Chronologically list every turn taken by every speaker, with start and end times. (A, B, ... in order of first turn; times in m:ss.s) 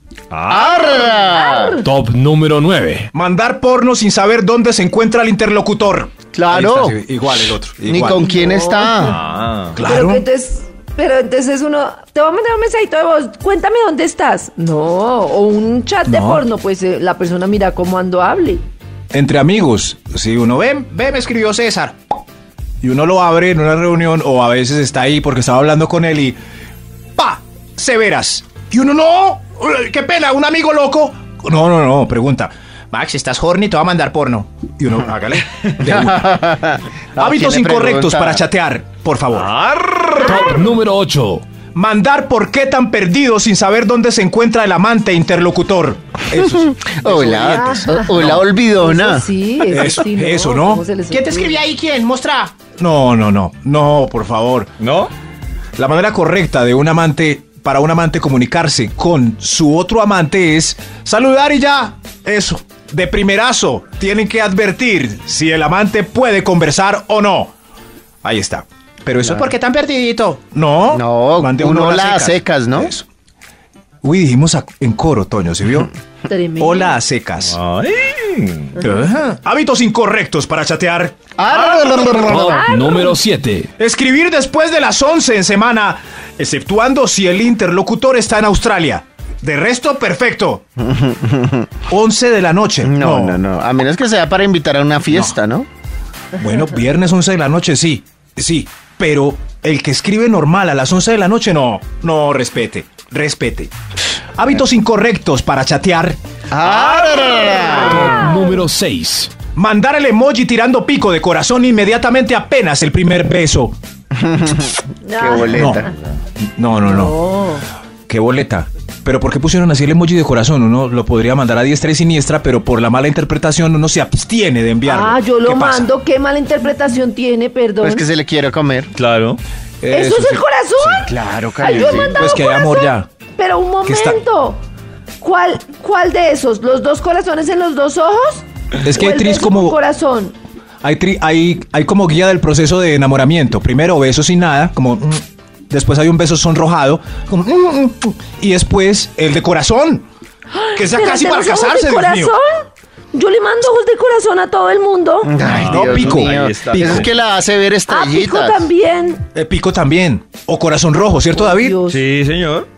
0:00.3-0:01.1 A
0:00.5-0:01.8 B
0:00.8-0:01.9 C
0:01.8-0:03.1 D
0:03.1-0:08.4 E
0:06.4-0:07.0 B
0:07.8-0:09.2 B
0:08.2-0:09.0 C
0:09.0-0:09.8 A
0:09.7-0:10.3 E
0:09.8-0:18.6 C
0:16.1-0:16.4 E
0:19.1-0:22.0 E
0:22.8-0:26.4 E
0:27.2-0:36.4 E
0:35.9-0:38.4 B
0:37.2-0:39.5 E
0:39.3-0:40.6 A
0:40.2-0:41.4 D
0:41.7-0:48.4 E
0:46.4-0:49.3 B
0:47.5-0:51.6 C
0:49.7-0:54.7 E
0:54.8-0:55.1 A
0:55.8-1:07.5 E
1:08.2-1:13.0 E
1:09.2-1:09.5 B
1:10.9-1:12.9 B
1:14.0-1:15.9 E
1:16.3-1:17.0 C
1:16.6-1:17.6 E
1:17.4-1:18.8 A
1:18.8-1:22.4 E
1:21.4-1:22.6 B
1:22.2-1:23.7 D
1:22.5-1:23.2 C
1:23.8-1:30.6 E
1:30.8-1:31.7 B
1:31.9-1:33.4 E
1:32.8-1:35.7 B
1:35.1-1:35.4 E
1:36.4-1:43.7 E
1:44.4-1:46.2 E
1:46.5-1:48.1 B
1:46.6-1:48.2 A
1:47.7-1:48.6 C
1:47.8-1:49.3 D
1:49.5-1:53.8 E
1:54.2-1:55.9 B
1:55.0-1:55.9 C
1:55.5-1:55.9 E
1:56.4-1:57.2 E
1:56.8-1:57.6 C
1:58.1-2:05.9 E
2:04.8-2:08.0 C
2:07.8-2:08.9 B
2:09.0-2:09.4 A
2:09.8-2:11.1 E
2:09.9-2:14.6 C
2:11.1-2:12.3 B
2:11.7-2:13.1 E
2:13.8-2:14.2 E
2:15.2-2:20.4 C
2:18.8-2:19.8 E
2:20.8-2:30.1 E
2:30.5-2:35.3 C
2:30.8-2:32.4 E
2:35.2-2:38.7 B
2:35.4-2:37.1 A
2:35.5-2:37.1 E
2:37.9-2:39.2 C
2:39.3-2:41.8 E
2:41.3-2:42.0 C
2:41.9-2:42.7 A